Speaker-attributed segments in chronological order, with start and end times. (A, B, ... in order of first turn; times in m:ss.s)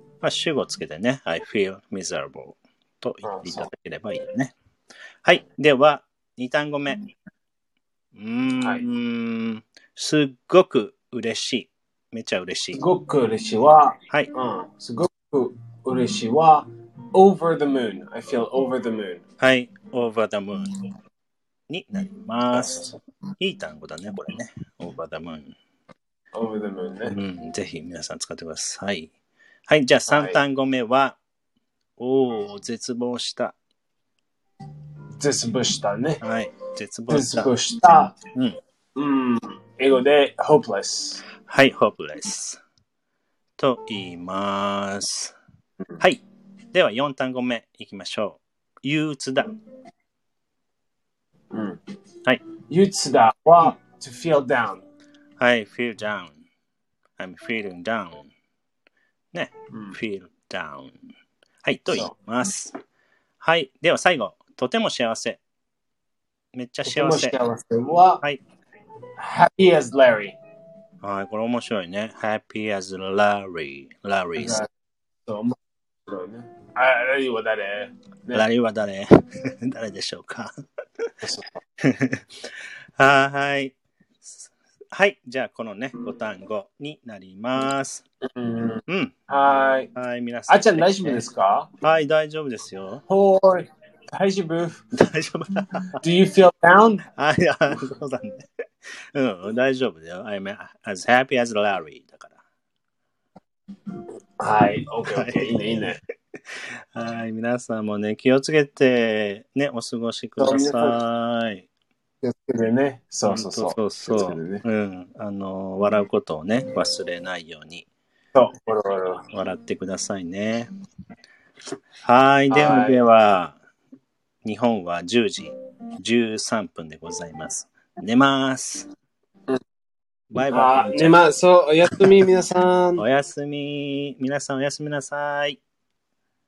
0:00.2-0:04.5 A
0:03.2-0:03.7 B
0:05.2-0:07.0 A
0:08.1-0:12.8 A
0:12.7-0:19.2 B
0:19.4-0:20.8 A
0:21.7-0:22.8 A
0:22.5-0:23.0 B
0:23.4-0:25.6 A
0:26.3-0:27.2 B
0:27.1-0:29.1 A
0:29.7-0:31.2 A
0:30.1-0:30.4 B
0:32.0-0:33.6 A
0:35.2-0:36.2 B
0:36.2-0:37.5 A
0:37.1-0:38.2 B
0:39.0-0:41.2 B
0:41.4-0:42.6 A
0:43.6-0:45.4 A
0:46.0-0:49.6 A
0:51.5-0:51.8 B
0:52.7-0:54.9 B
0:55.4-0:56.4 A
0:57.2-0:58.3 A
0:59.3-1:01.0 A
1:01.6-1:02.7 A
1:03.4-1:05.4 A
1:06.5-1:07.4 A
1:06.9-1:08.2 B
1:09.2-1:10.4 B
1:11.0-1:14.6 A
1:14.4-1:14.7 B
1:15.2-1:15.6 B
1:16.1-1:18.4 B
1:18.3-1:21.1 A
1:21.2-1:21.6 B
1:21.8-1:28.0 A
1:28.3-1:29.9 B
1:28.9-1:29.1 A
1:30.0-1:31.2 A
1:30.5-1:31.7 B
1:31.8-1:33.0 A
1:33.1-1:34.8 B
1:35.0-1:35.9 A
1:36.0-1:37.0 B
1:37.2-1:38.4 A
1:39.2-1:42.4 A
1:44.4-1:46.0 B
1:45.1-1:46.0 A
1:46.5-1:51.7 A
1:50.4-1:51.0 B
1:52.2-1:54.6 B
1:53.2-1:57.9 A
1:58.3-1:59.2 B
1:59.3-2:00.7 A
2:02.0-2:03.6 A
2:02.5-2:03.0 B
2:04.4-2:08.9 A
2:10.3-2:11.2 A
2:10.5-2:13.0 B
2:13.0-2:15.6 A